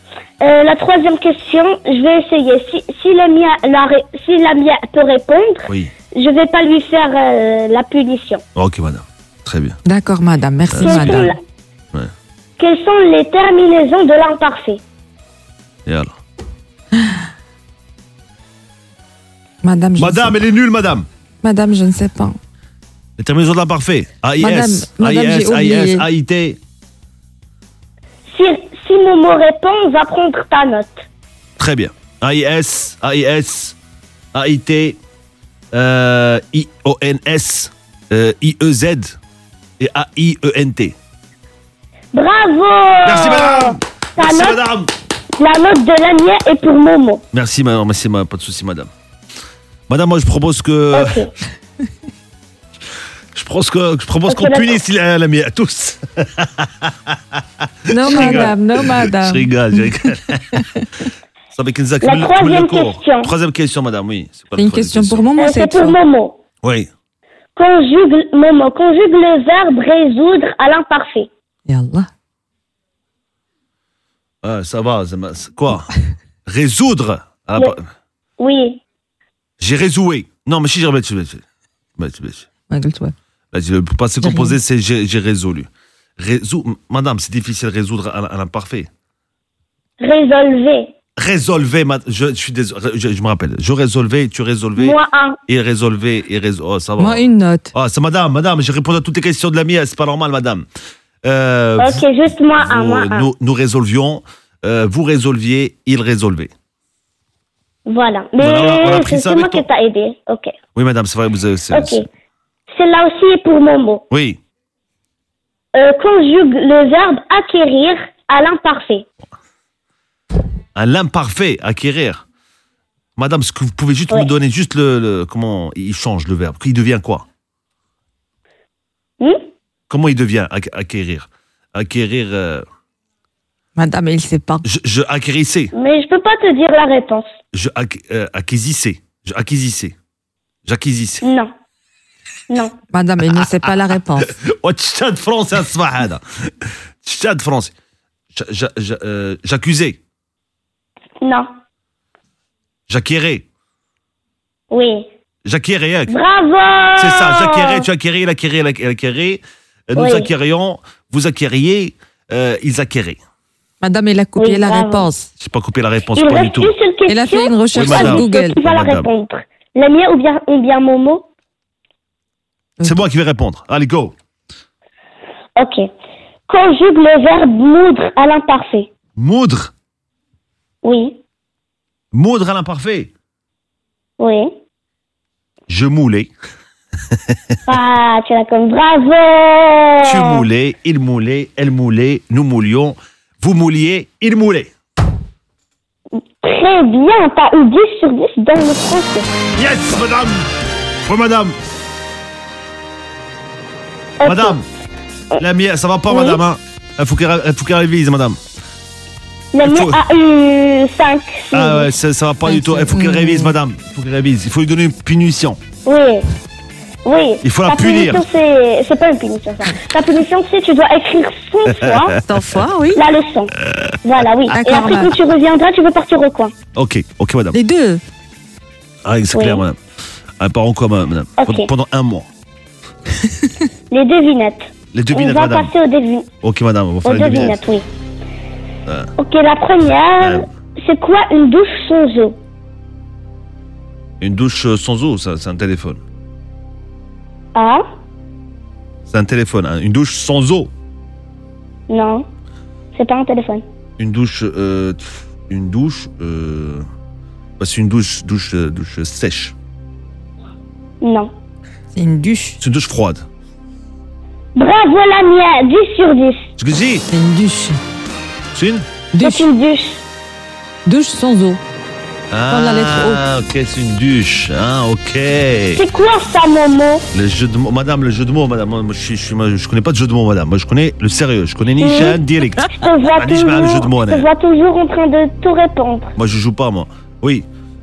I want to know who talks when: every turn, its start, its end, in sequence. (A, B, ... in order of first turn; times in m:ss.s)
0:00.4-0:08.4 A
0:08.6-0:09.8 B
0:09.8-0:11.3 C
0:10.7-0:11.3 B
0:10.8-0:11.4 A
0:12.6-0:14.8 A
0:15.8-0:16.1 B
0:19.6-0:20.4 C
0:20.0-0:21.0 B
0:21.4-0:22.4 C
0:23.2-0:26.6 B
0:24.4-0:26.0 C
0:28.3-0:31.0 A
0:31.6-0:33.8 B
0:34.3-0:35.0 B
0:35.7-0:39.2 B
0:39.8-0:41.0 B
0:42.1-0:44.6 A
0:43.0-0:44.9 B
0:45.4-0:47.2 A
0:47.3-0:48.9 B
0:49.9-0:51.2 B
0:50.9-0:51.3 A
0:53.3-1:00.6 B
0:54.3-0:54.8 A
0:57.9-0:59.9 C
1:00.5-1:00.8 C
1:01.5-1:05.3 B
1:02.0-1:03.3 A
1:04.6-1:06.0 C
1:05.4-1:06.4 A
1:06.6-1:06.9 B
1:07.5-1:11.3 A
1:11.7-1:12.1 C
1:14.4-1:15.9 B
1:16.4-1:17.8 B
1:18.4-1:18.8 A
1:19.6-1:21.4 B
1:22.0-1:22.5 B
1:22.7-1:23.1 C
1:23.5-1:28.9 B
1:24.2-1:24.6 C
1:30.0-1:30.9 A
1:31.2-1:40.6 B
1:34.8-1:35.4 A
1:37.0-1:37.7 C
1:41.2-1:42.0 B
1:41.8-1:43.3 A
1:42.6-1:46.5 B
1:47.9-1:50.5 A
1:48.4-1:49.6 B
1:50.7-1:52.0 B
1:51.7-1:52.0 A
1:52.7-1:54.0 A
1:54.1-1:54.4 B
1:55.7-1:59.0 A
2:00.8-2:02.2 B
2:03.2-2:07.2 B
2:09.2-2:09.5 A
2:09.9-2:12.6 B
2:13.8-2:14.6 C
2:14.6-2:15.7 B
2:15.7-2:17.3 A
2:17.5-2:19.9 B
2:20.6-2:21.2 B
2:21.2-2:21.5 A
2:22.5-2:22.7 A
2:22.9-2:24.3 C
2:23.3-2:23.7 B
2:24.2-2:26.2 B
2:27.0-2:27.7 B
2:28.3-2:30.0 B
2:31.2-2:31.5 A
2:32.9-2:33.4 B
2:34.7-2:35.1 A
2:35.4-2:36.1 B
2:36.1-2:37.9 A
2:37.0-2:43.2 B
2:40.0-2:40.3 A
2:43.8-2:45.3 C
2:44.4-2:45.1 A
2:45.4-2:46.7 B
2:46.1-2:51.3 A
2:47.1-2:48.6 C
2:47.7-2:49.1 B
2:52.8-2:53.0 C
2:52.8-2:54.1 B
2:55.6-2:55.8 A
2:56.5-2:58.9 A
2:59.2-2:59.7 B
3:00.8-3:01.2 A
3:02.1-3:03.1 B
3:04.2-3:04.5 A
3:05.7-3:06.3 B
3:07.1-3:07.6 B
3:07.7-3:10.4 A
3:10.0-3:14.7 B
3:16.4-3:19.3 A
3:19.6-3:20.4 B
3:21.0-3:21.5 B
3:24.2-3:24.6 A
3:24.2-3:24.6 B
3:25.4-3:28.4 B
3:26.1-3:26.4 A
3:29.5-3:31.9 A
3:29.6-3:30.0 B
3:31.5-3:35.6 B
3:32.4-3:33.5 C
3:35.8-3:36.3 A
3:37.0-3:42.2 A
3:37.4-3:38.2 B
3:42.2-3:43.0 C
3:42.9-3:46.5 A
3:44.5-3:45.1 C
3:46.7-3:47.6 B
3:47.5-3:48.0 C
3:49.0-3:49.8 B
3:49.3-3:49.6 A
3:50.4-3:52.3 B
3:51.4-3:51.7 A
3:53.9-3:56.3 A
3:54.9-3:55.7 B
3:56.4-3:57.6 B
3:57.0-3:57.9 A
3:59.2-4:02.4 A
4:00.2-4:00.5 B
4:04.2-4:06.0 B
4:07.5-4:07.8 A
4:09.1-4:10.7 B
4:11.9-4:12.3 A
4:12.9-4:13.6 A
4:14.0-4:16.8 B
4:17.6-4:19.5 B
4:21.0-4:21.3 A
4:21.9-4:22.6 C
4:22.6-4:23.2 B
4:24.5-4:26.5 A
4:26.6-4:27.0 B
4:27.1-4:27.8 C
4:28.5-4:28.8 B
4:29.1-4:29.4 C
4:29.2-4:30.0 A
4:30.8-4:31.6 C
4:32.3-4:35.8 B
4:32.5-4:33.2 C
4:35.7-4:37.0 A
4:37.1-4:44.3 B
4:41.8-4:46.1 A
4:46.2-4:47.4 B